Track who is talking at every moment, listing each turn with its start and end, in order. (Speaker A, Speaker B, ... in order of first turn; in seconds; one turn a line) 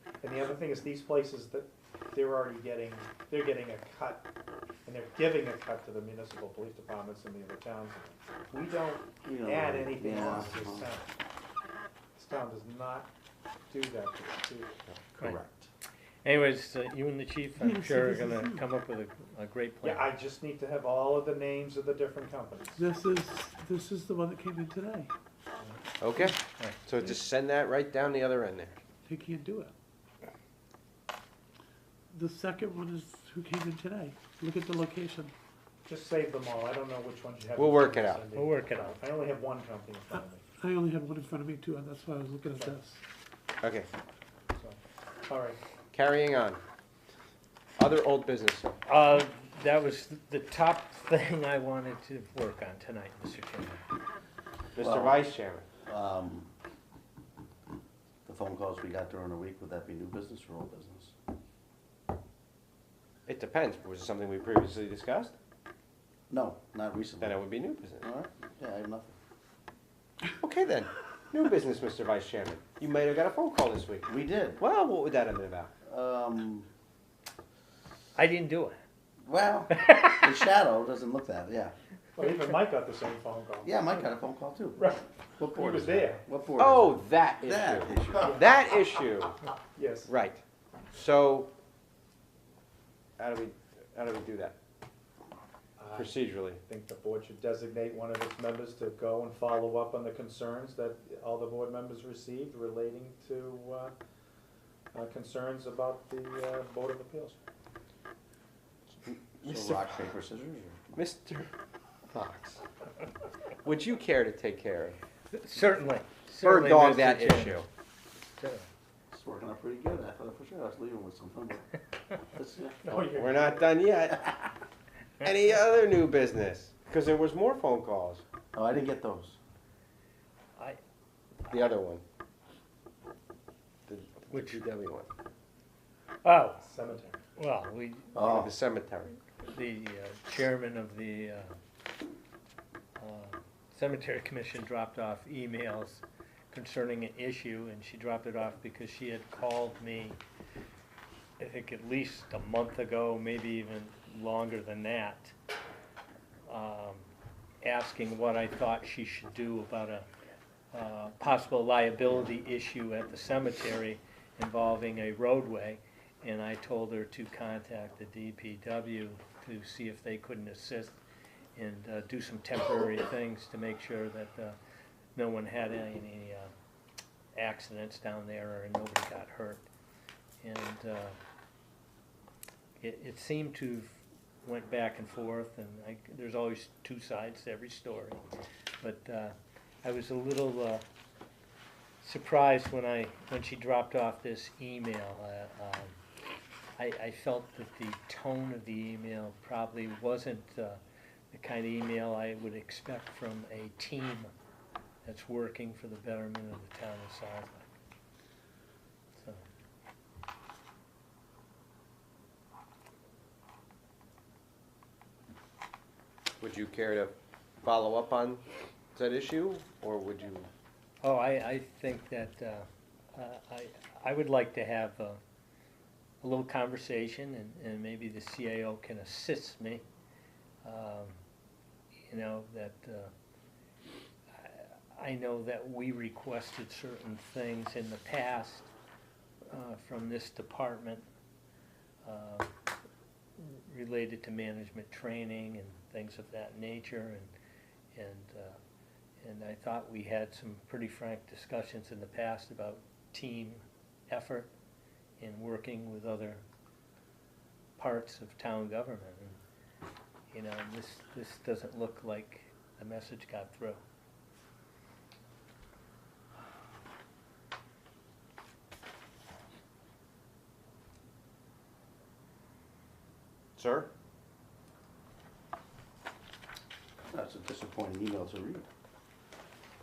Speaker A: 0.2-4.3
Speaker A: 4.8-11.1
Speaker B: 9.2-10.9
Speaker A: 12.2-13.1
Speaker A: 13.7-14.7
Speaker C: 14.9-15.4
Speaker B: 15.2-15.7
Speaker D: 16.2-20.1
Speaker E: 17.6-18.6
Speaker A: 19.8-22.8
Speaker E: 22.8-25.1
Speaker C: 26.0-28.8
Speaker D: 26.5-26.9
Speaker E: 29.1-29.7
Speaker E: 32.1-35.3
Speaker A: 35.9-40.4
Speaker C: 37.6-38.2
Speaker D: 38.3-39.0
Speaker E: 40.6-43.0
Speaker C: 43.6-43.9
Speaker A: 44.5-45.6
Speaker C: 45.9-46.6
Speaker C: 47.8-48.7
Speaker D: 48.9-53.9
Speaker C: 54.7-55.6
Speaker B: 54.8-55.3
Speaker B: 55.8-56.5
Speaker B: 58.2-61.1
Speaker C: 63.3-65.3
Speaker B: 66.3-67.4
Speaker C: 67.2-68.0
Speaker B: 68.0-69.2
Speaker C: 70.4-74.1
Speaker B: 74.0-74.6
Speaker C: 74.6-75.7
Speaker B: 75.8-76.7
Speaker D: 78.2-78.8
Speaker B: 79.2-81.7
Speaker D: 79.7-80.2
Speaker A: 82.1-83.8
Speaker B: 83.6-84.8
Speaker A: 84.8-86.2
Speaker B: 85.4-88.4
Speaker C: 86.6-89.4
Speaker A: 89.8-90.1
Speaker C: 90.0-91.5
Speaker C: 93.2-94.5
Speaker A: 95.8-103.9
Speaker C: 95.9-96.6
Speaker A: 104.9-107.4
Speaker C: 109.1-110.0
Speaker B: 109.4-111.0
Speaker C: 111.0-111.5
Speaker C: 112.1-112.6
Speaker C: 113.6-115.0
Speaker D: 115.3-117.6
Speaker C: 116.4-117.7
Speaker D: 118.2-118.7
Speaker B: 119.1-123.3
Speaker A: 122.9-123.7
Speaker C: 123.1-124.4
Speaker C: 125.2-128.2
Speaker B: 128.5-129.4
Speaker C: 131.5-132.0
Speaker C: 133.9-135.1
Speaker D: 134.3-134.6
Speaker D: 136.2-136.6
Speaker A: 136.6-137.2
Speaker D: 137.3-138.2
Speaker B: 138.1-138.5
Speaker C: 138.2-139.2
Speaker D: 139.5-141.5
Speaker D: 143.0-150.2
Speaker D: 151.4-155.3
Speaker D: 156.5-157.0
Speaker D: 157.6-160.1
Speaker D: 160.7-171.0
Speaker D: 171.6-174.6
Speaker D: 175.2-176.5
Speaker D: 177.3-179.7
Speaker D: 180.4-181.2
Speaker D: 182.8-188.2
Speaker D: 188.8-190.8
Speaker D: 192.0-196.0
Speaker D: 196.8-200.8
Speaker D: 201.3-204.3
Speaker D: 205.0-207.7
Speaker D: 209.2-209.4
Speaker C: 216.4-218.4
Speaker C: 218.9-220.5
Speaker D: 221.0-225.2
Speaker D: 226.2-229.8
Speaker D: 230.6-231.2
Speaker D: 232.1-233.1
Speaker D: 234.4-238.7
Speaker D: 239.5-241.0
Speaker D: 242.0-242.5
Speaker D: 243.4-247.3
Speaker D: 247.9-248.6
Speaker D: 249.2-254.5
Speaker D: 255.2-256.4
Speaker D: 257.8-259.4
Speaker D: 260.3-263.8
Speaker C: 273.6-273.9
Speaker B: 277.1-278.6